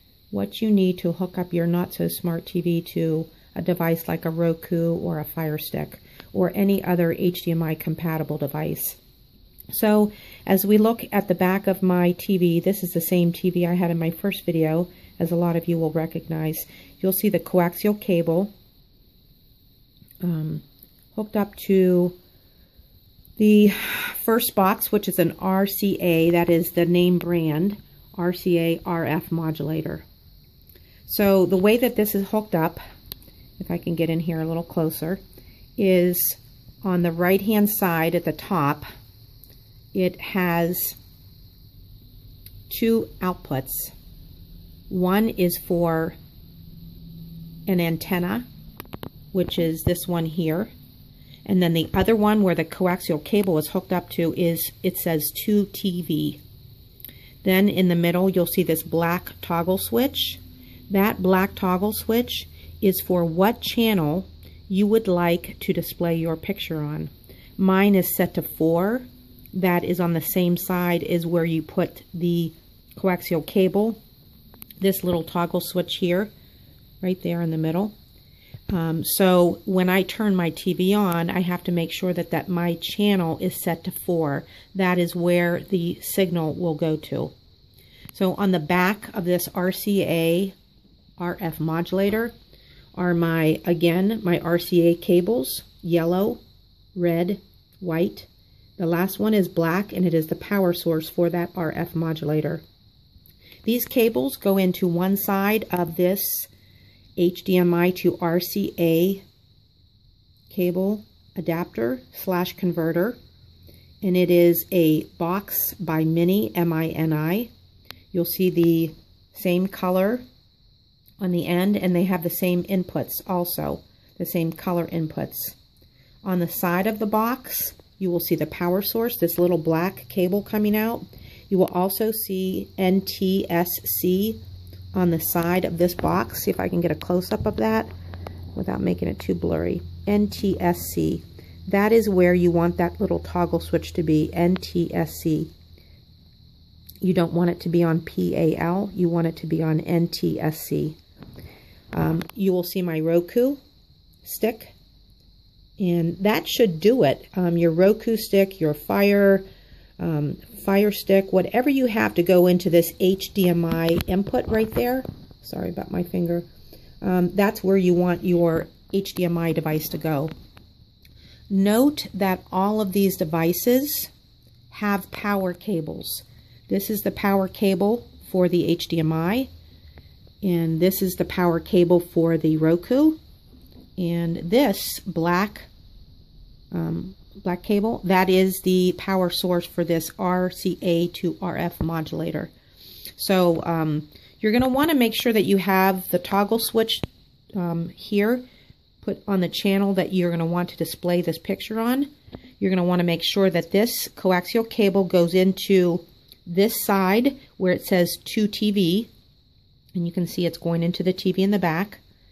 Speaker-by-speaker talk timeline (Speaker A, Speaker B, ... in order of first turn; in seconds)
Speaker A: 0.3-9.0, 9.7-18.5, 20.2-20.6, 21.1-22.1, 23.4-30.1, 31.1-32.8, 33.6-35.2, 35.8-38.9, 39.9-41.0, 42.7-43.9, 44.9-46.1, 47.7-48.5, 49.3-50.7, 51.5-56.4, 57.4-74.0, 74.8-76.3, 77.0-77.9, 78.7-87.3, 88.1-90.5, 91.2-92.3, 92.9-96.4, 96.9-102.6, 103.6-106.5, 107.2-109.2, 110.5-113.2, 114.0-117.5, 118.1-120.2, 121.2-125.6, 126.2-134.4, 134.9-137.9, 138.5-145.5, 147.0-151.0, 151.9-153.6, 154.2-154.7, 155.8-159.4, 160.0-166.5, 167.0-170.3, 171.5-174.1, 174.7-179.5, 180.4-183.2, 184.0-185.7, 186.7-192.5, 193.2-198.4, 199.0-202.1, 202.6-209.1, 209.9-212.0